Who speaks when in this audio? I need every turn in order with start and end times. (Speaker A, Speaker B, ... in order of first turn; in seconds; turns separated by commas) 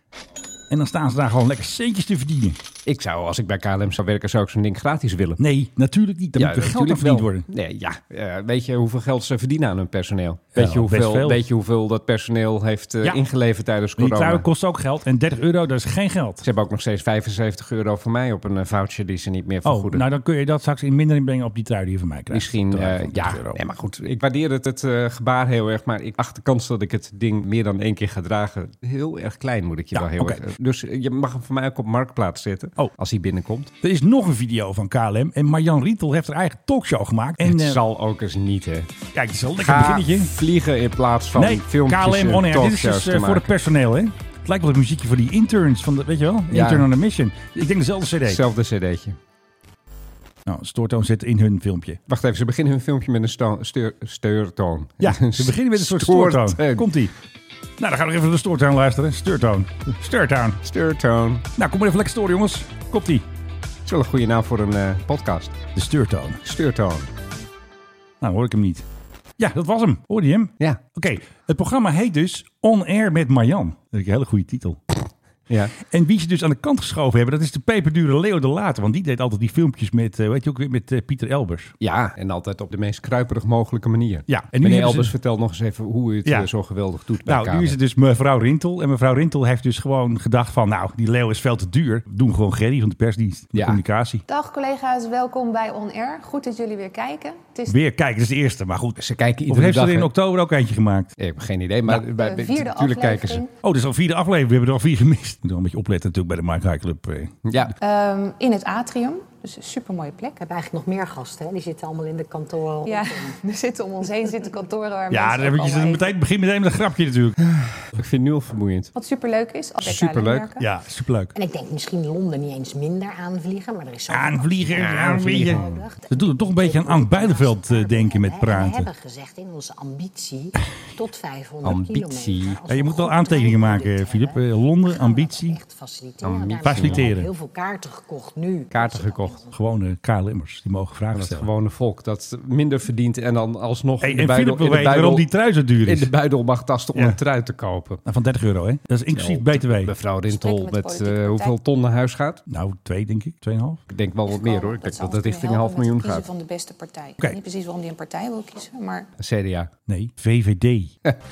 Speaker A: 0.7-2.6, Speaker B: 2.9-5.4, Speaker A: 5.4-7.5, Speaker B: 6.4-14.5, Speaker A: 10.6-11.4, Speaker A: 14.0-16.4, Speaker B: 16.4-20.0, Speaker A: 19.6-23.6, Speaker B: 22.3-33.7, Speaker A: 29.9-30.4, Speaker A: 33.8-37.8, Speaker B: 37.4-38.9, Speaker A: 39.1-40.3, Speaker B: 39.6-43.5, Speaker A: 41.4-48.4, Speaker B: 46.5-46.9, Speaker B: 48.2-49.2, Speaker A: 50.5-52.0, Speaker B: 52.1-56.9, Speaker A: 55.0-57.1, Speaker A: 57.8-60.6, Speaker B: 60.6-61.5, Speaker A: 61.6-63.2, Speaker B: 63.9-65.6, Speaker A: 65.8-66.4, Speaker B: 66.5-67.1, Speaker A: 68.2-68.8, Speaker A: 69.4-74.8, Speaker B: 75.5-75.8, Speaker A: 75.8-81.7, Speaker B: 81.8-87.8, Speaker A: 84.3-85.1, Speaker A: 87.2-94.2, Speaker B: 93.5-93.8, Speaker C: 94.3-97.8, Speaker A: 97.7-99.0, Speaker B: 99.0-100.1, Speaker A: 99.5-101.1, Speaker B: 101.2-103.4, Speaker C: 102.0-103.5, Speaker A: 103.6-107.7, Speaker B: 107.5-107.7, Speaker C: 107.8-110.4, Speaker D: 110.4-113.4, Speaker C: 112.8-116.1, Speaker A: 115.1-117.4, Speaker B: 117.5-118.9, Speaker C: 119.0-120.6, Speaker B: 119.8-120.5, Speaker A: 120.6-121.3, Speaker D: 121.3-139.5, Speaker A: 124.1-128.9, Speaker B: 124.8-125.8, Speaker B: 131.6-132.6, Speaker A: 132.7-135.6, Speaker B: 136.2-137.1, Speaker A: 136.7-137.3, Speaker B: 138.7-139.4, Speaker A: 139.5-141.5, Speaker B: 141.1-145.3, Speaker A: 144.0-146.1, Speaker B: 145.8-148.0, Speaker A: 148.1-149.9, Speaker B: 149.1-152.4, Speaker C: 150.3-151.6, Speaker A: 152.5-153.8, Speaker B: 153.9-156.3, Speaker C: 154.3-159.1, Speaker B: 159.2-159.7, Speaker A: 159.9-160.9